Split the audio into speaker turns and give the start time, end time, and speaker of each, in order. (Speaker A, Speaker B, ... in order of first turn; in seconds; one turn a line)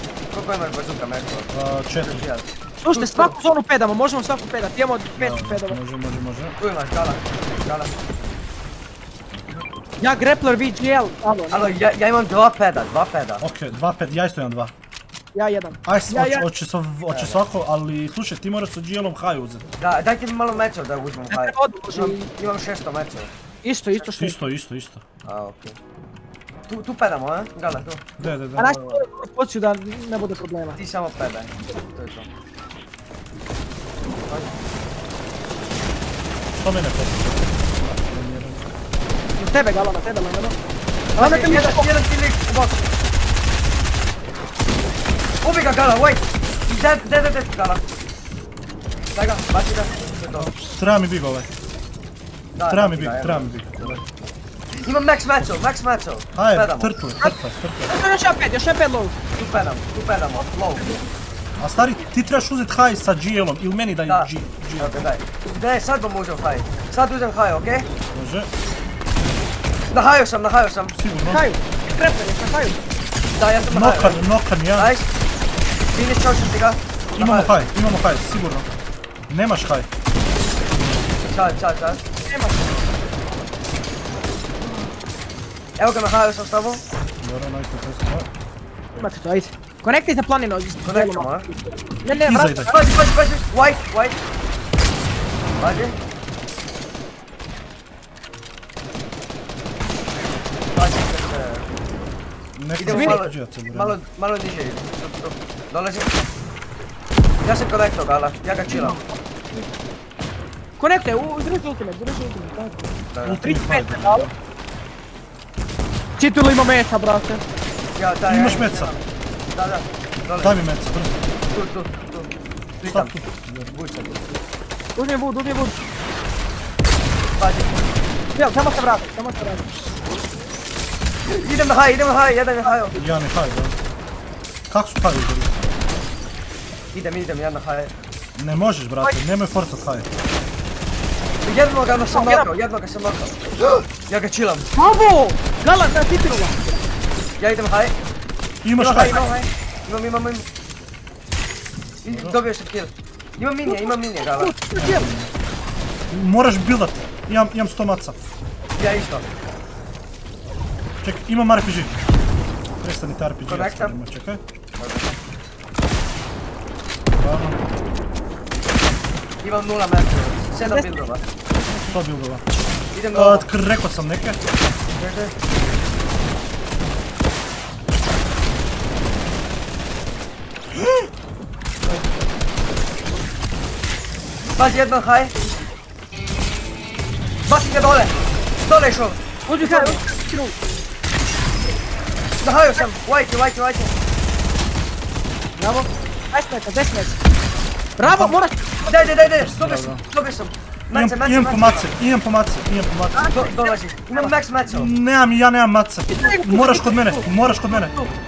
Speaker A: 0.3-3.3
Speaker B: 1.5-2.2
Speaker C: 2.8-5.8
Speaker B: 5.2-6.5
Speaker A: 6.6-8.0
Speaker C: 10.0-11.7
Speaker A: 11.5-13.4
Speaker B: 13.4-14.7
Speaker C: 15.3-16.4
Speaker B: 15.8-19.6
Speaker A: 17.1-17.4
Speaker A: 19.8-23.3
Speaker C: 21.3-22.2
Speaker C: 23.6-24.4
Speaker B: 24.1-25.0
Speaker A: 25.2-25.8
Speaker A: 26.7-28.0
Speaker B: 28.2-28.8
Speaker C: 28.6-30.8
Speaker A: 28.8-29.0
Speaker A: 30.7-32.3
Speaker A: 34.2-34.5
Speaker B: 36.6-38.6
Speaker C: 39.4-40.5
Speaker A: 41.1-42.9
Speaker C: 41.2-41.9
Speaker A: 45.4-47.8
Speaker A: 49.1-50.5
Speaker B: 50.3-51.5
Speaker A: 52.5-54.0
Speaker B: 52.7-54.0
Speaker A: 54.8-57.0
Speaker B: 56.3-57.9
Speaker C: 57.9-59.1
Speaker A: 59.4-61.0
Speaker B: 61.6-65.0
Speaker A: 64.0-67.9
Speaker B: 68.1-68.5
Speaker A: 69.9-70.9
Speaker B: 70.9-71.4
Speaker C: 71.3-72.8
Speaker A: 73.3-75.1
Speaker B: 73.7-74.9
Speaker A: 75.9-77.5
Speaker B: 77.2-78.7
Speaker B: 79.3-79.9
Speaker A: 81.3-82.0
Speaker C: 82.3-82.7
Speaker A: 85.8-86.8
Speaker B: 87.2-88.3
Speaker C: 89.0-92.8
Speaker A: 90.8-91.5
Speaker B: 92.1-92.8
Speaker A: 92.7-94.2
Speaker A: 95.6-96.0
Speaker A: 100.7-101.7
Speaker B: 102.5-104.0
Speaker A: 102.8-106.1
Speaker C: 102.9-103.2
Speaker A: 107.4-109.0
Speaker C: 108.7-109.7
Speaker C: 110.8-112.8
Speaker A: 113.1-113.5
Speaker B: 113.2-114.3
Speaker C: 113.4-114.3
Speaker C: 116.2-117.4
Speaker A: 118.0-120.6
Speaker B: 118.3-118.9
Speaker B: 120.4-121.1
Speaker A: 121.5-124.3
Speaker B: 122.8-123.7
Speaker C: 125.0-125.8
Speaker A: 127.4-127.8
Speaker C: 128.3-129.7
Speaker A: 131.2-133.0
Speaker B: 132.9-133.8
Speaker B: 134.7-135.7
Speaker A: 136.9-137.9
Speaker B: 138.3-140.1
Speaker A: 141.4-144.7
Speaker C: 142.1-142.4
Speaker C: 144.7-146.8
Speaker A: 147.4-147.9
Speaker B: 148.6-149.2
Speaker A: 148.8-150.5
Speaker C: 148.9-149.4
Speaker A: 152.0-154.5
Speaker B: 152.1-152.4
Speaker C: 153.7-155.1
Speaker B: 154.7-155.3
Speaker B: 156.1-158.2
Speaker A: 158.8-159.2
Speaker B: 161.0-161.9
Speaker B: 162.8-164.4
Speaker A: 163.4-164.0
Speaker A: 164.8-165.1
Speaker B: 167.1-167.6
Speaker A: 169.4-171.2
Speaker C: 170.6-170.9
Speaker C: 171.5-171.9
Speaker B: 171.9-172.4
Speaker A: 172.9-173.5
Speaker B: 173.1-174.4
Speaker A: 174.9-175.3
Speaker A: 184.6-185.3
Speaker A: 187.4-190.0
Speaker C: 189.4-190.6
Speaker A: 192.4-193.9
Speaker C: 195.6-197.2
Speaker C: 198.0-199.1
Speaker B: 198.0-198.4
Speaker A: 198.8-201.9
Speaker B: 199.3-200.0
Speaker B: 200.9-203.3
Speaker C: 203.1-204.3
Speaker A: 203.3-204.9
Speaker B: 204.7-207.9
Speaker C: 206.1-208.1